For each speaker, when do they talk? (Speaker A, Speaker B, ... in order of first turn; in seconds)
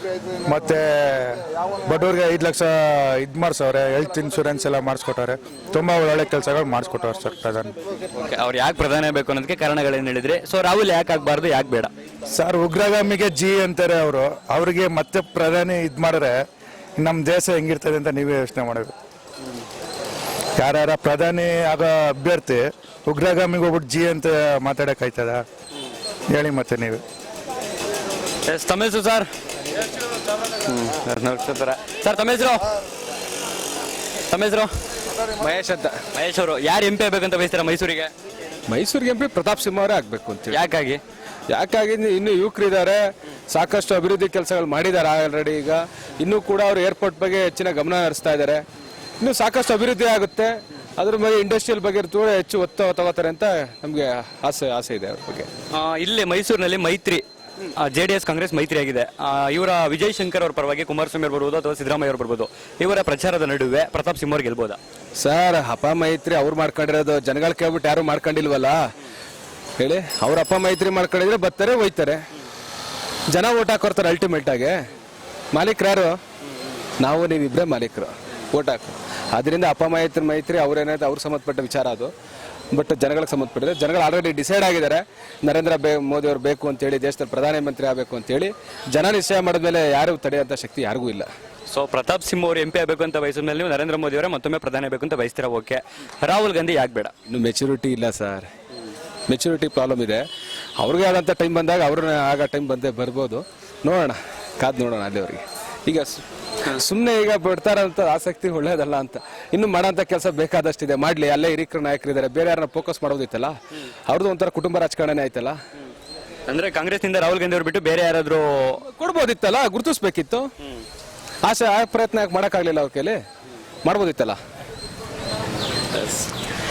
Speaker A: 0.5-7.8, 12.3-16.4, 17.0-18.9, 20.6-25.4, 26.3-27.0
Speaker B: 8.2-11.9, 28.5-29.3, 30.7-32.7, 34.3-34.7, 36.1-38.1, 40.5-41.0, 55.7-57.2, 57.8-64.8, 91.7-97.1, 116.5-118.8, 125.9-126.3
Speaker C: 35.4-36.0, 38.7-40.6, 41.5-43.0, 43.5-48.6, 49.2-55.5, 65.2-68.8, 69.8-72.2, 73.3-74.8, 75.5-76.2, 77.0-82.1, 82.7-91.3, 97.3-98.5, 99.3-100.2, 100.8-115.6, 118.9-120.5, 121.5-123.2, 123.8-124.4